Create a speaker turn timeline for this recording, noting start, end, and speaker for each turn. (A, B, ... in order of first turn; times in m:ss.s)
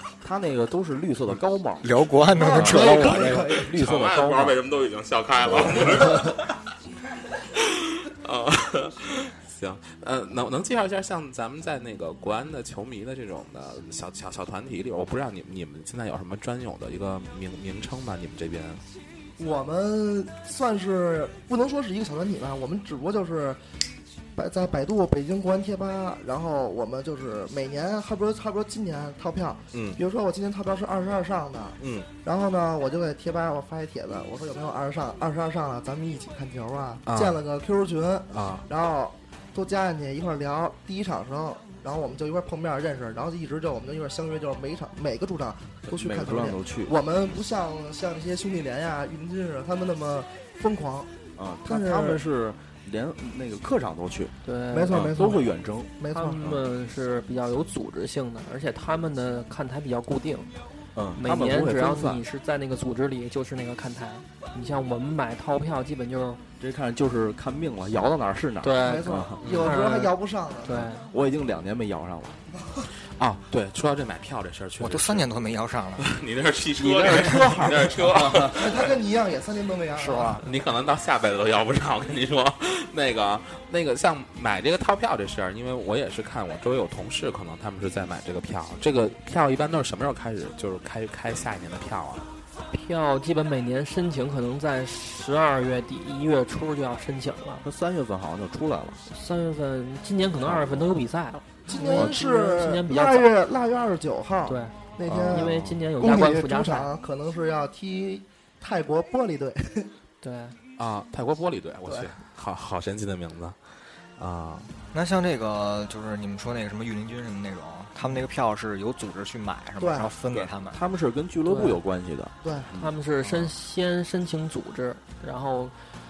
0:00.2-0:04.6 A
0:01.8-0:03.6 B
0:02.4-0:03.8 C
0:03.0-0:06.6 D
0:05.5-0:06.3 A
0:07.5-0:18.8 D
0:19.4-0:23.8 C
0:24.4-0:51.1 C
0:29.7-0:30.0 D
0:31.8-0:32.1 D
0:37.1-0:37.4 D
0:38.3-0:38.7 D
0:45.9-0:46.9 A
0:51.4-0:54.4 A
0:51.6-0:52.2 C
0:54.4-0:55.0 E
0:54.7-0:56.4 C
0:54.9-0:56.6 A
0:56.1-1:00.5 E
1:01.0-1:02.2 A
1:01.2-1:06.4 E
1:06.6-1:09.4 A
1:08.6-1:10.1 E
1:08.8-1:10.9 C
1:09.4-1:09.8 D
1:10.6-1:11.1 E
1:10.9-1:12.4 A
1:12.6-1:12.9 C
1:13.0-1:15.4 D
1:14.8-1:16.1 B
1:16.0-1:18.9 D
1:16.8-1:18.6 A
1:18.5-1:20.4 C
1:20.0-1:20.4 B
1:20.4-1:32.3 D
1:32.7-1:37.6 E
1:37.6-1:39.0 A
1:39.1-1:43.3 E
1:40.4-1:40.9 A
1:41.7-1:50.0 C
1:41.9-1:42.2 A
1:44.5-1:44.8 E
1:45.1-1:45.8 D
1:45.3-1:46.9 E
1:50.2-1:50.6 E
1:50.8-1:54.7 D
1:51.9-1:52.2 C
1:54.9-2:00.8 B
1:59.8-2:00.1 C
2:00.4-2:03.0 A
2:01.5-2:01.8 E
2:02.4-2:02.7 C
2:02.8-2:05.8 E